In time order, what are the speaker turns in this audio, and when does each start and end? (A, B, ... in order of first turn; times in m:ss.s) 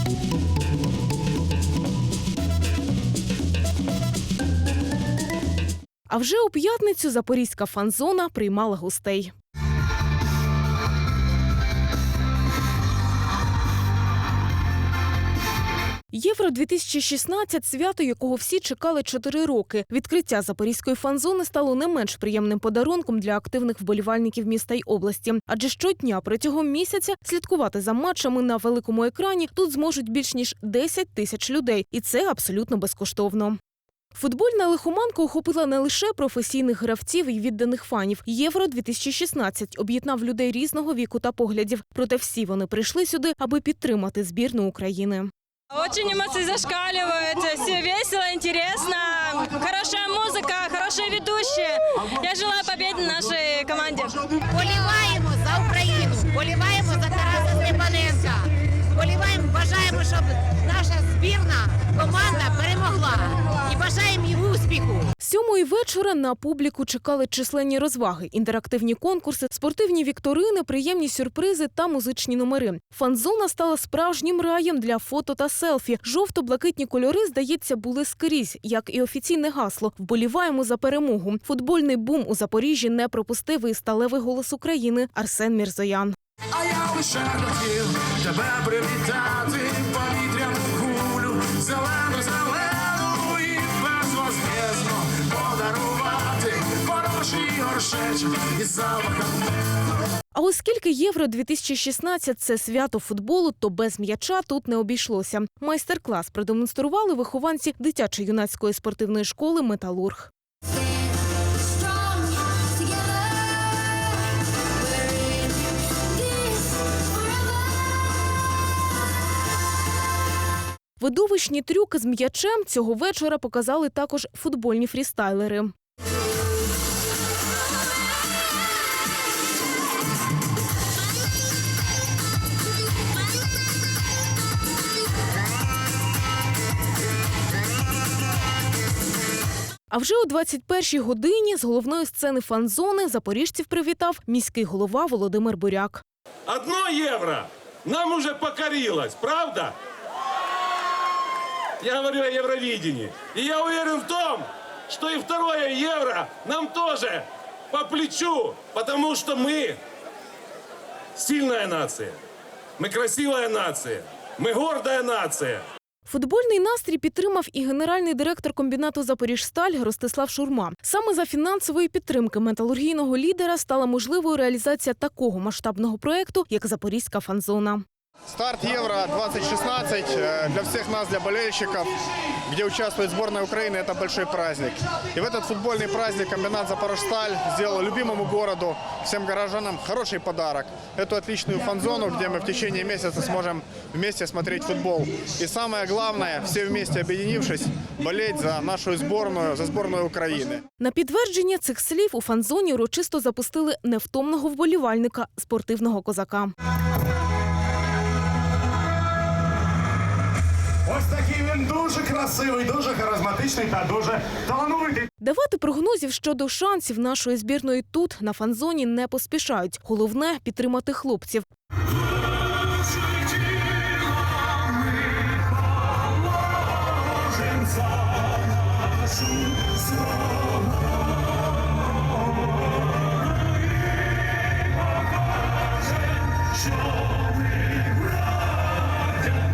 0:06.1-0:09.3 A
0:16.1-0:33.6 A
0:34.1-0:45.3 A
0:45.7-0:54.3 B
0:54.5-1:05.1 C
1:05.2-1:26.2 A
1:27.3-1:39.3 D
1:40.3-1:50.3 A
1:51.7-1:54.1 B
1:54.9-1:57.6 B
2:01.0-2:05.7 A
2:19.9-2:26.0 A
2:26.5-2:29.8 E
2:31.8-2:39.8 E
2:41.2-2:42.2 E
2:42.8-2:45.6 E
2:46.1-2:57.8 A
2:58.3-3:20.6 F
3:20.8-3:26.5 A
3:30.8-3:35.1 G
3:35.2-3:41.5 A